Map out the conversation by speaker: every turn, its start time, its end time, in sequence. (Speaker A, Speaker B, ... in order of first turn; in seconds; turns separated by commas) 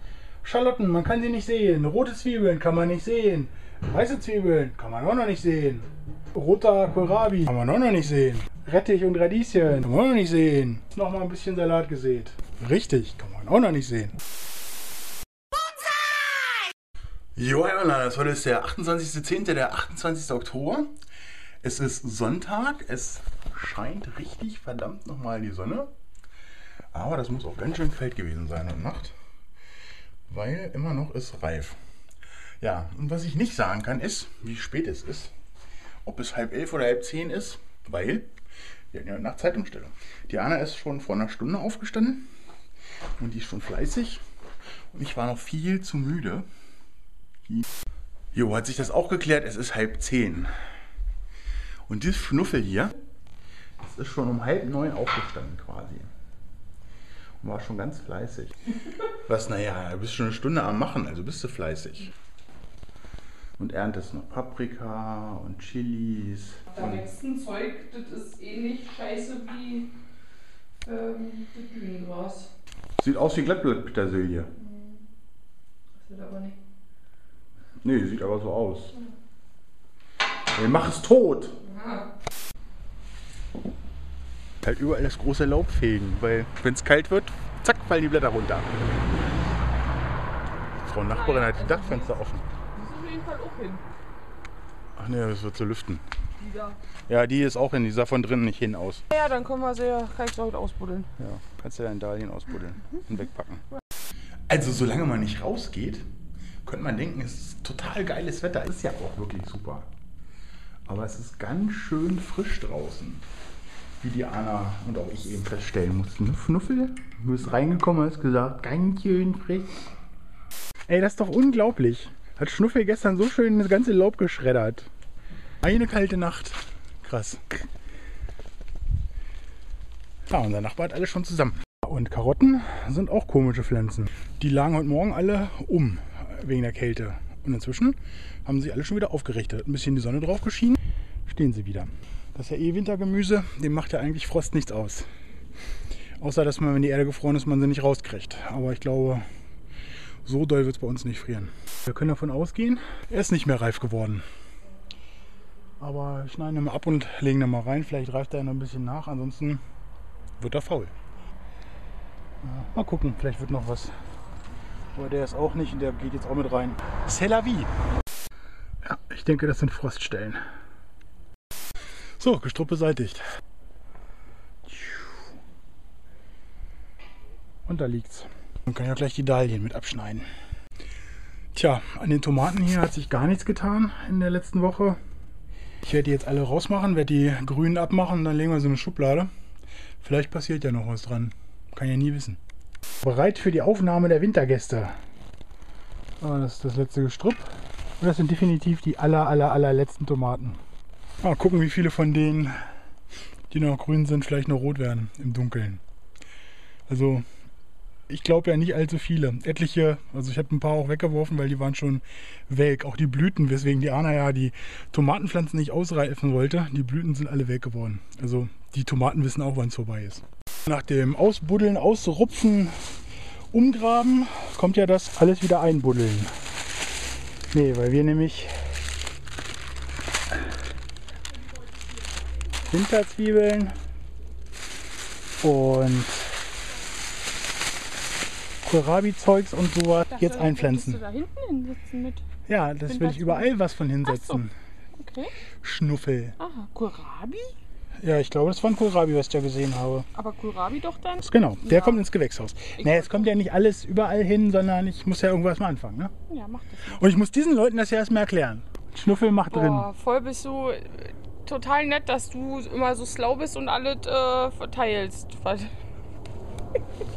Speaker A: 0.4-14.2, Speaker A: 17.4-20.9, Speaker A: 21.6-25.9, Speaker A: 26.9-29.1, Speaker A: 30.3-31.8, Speaker A: 32.6-35.3, Speaker A: 36.0-38.3, Speaker A: 38.9-42.3, Speaker A: 43.2-44.2, Speaker A: 44.9-46.5, Speaker A: 48.3-50.5, Speaker A: 51.9-53.0, Speaker A: 53.8-56.1, Speaker A: 57.4-58.6, Speaker A: 59.1-62.1, Speaker A: 63.6-67.0, Speaker B: 66.7-69.9, Speaker B: 70.8-72.5, Speaker A: 73.0-74.5, Speaker B: 74.6-75.0, Speaker B: 76.0-76.6, Speaker A: 77.8-79.0, Speaker A: 80.5-81.6, Speaker B: 81.7-82.0, Speaker A: 84.6-88.7, Speaker A: 90.8-92.5, Speaker B: 91.1-92.1, Speaker B: 92.7-93.8, Speaker A: 95.0-96.0, Speaker B: 96.4-96.8, Speaker A: 97.1-99.0, Speaker B: 99.1-101.1, Speaker A: 101.2-103.7, Speaker A: 104.5-106.1, Speaker A: 106.6-109.9, Speaker A: 110.9-113.3, Speaker A: 114.0-119.8, Speaker A: 120.9-124.9, Speaker A: 125.6-127.6, Speaker A: 130.3-145.1, Speaker A: 146.2-149.2, Speaker A: 150.2-154.2, Speaker A: 155.8-159.6, Speaker A: 160.4-160.9, Speaker A: 162.4-163.9, Speaker A: 164.9-167.7, Speaker A: 168.8-170.4, Speaker A: 172.2-173.2, Speaker A: 174.7-175.3, Speaker A: 177.7-180.3, Speaker A: 181.5-185.0, Speaker A: 185.8-189.3, Speaker A: 190.0-192.4, Speaker A: 193.0-194.9, Speaker A: 196.2-200.6, Speaker A: 201.2-202.6, Speaker A: 203.5-205.8, Speaker A: 206.9-207.2, Speaker A: 208.1-222.8, Speaker A: 223.5-226.3, Speaker A: 227.5-228.7, Speaker A: 232.6-233.7, Speaker A: 235.4-236.4, Speaker A: 238.6-241.0, Speaker B: 240.1-242.2, Speaker A: 242.5-244.5, Speaker B: 242.9-243.5, Speaker B: 244.1-244.4, Speaker B: 245.0-245.3, Speaker A: 245.6-246.4, Speaker B: 246.4-247.5, Speaker A: 248.0-250.1, Speaker B: 250.1-252.0, Speaker A: 251.2-256.1, Speaker B: 252.8-253.3, Speaker B: 256.3-257.1, Speaker A: 256.9-259.9, Speaker B: 259.5-265.7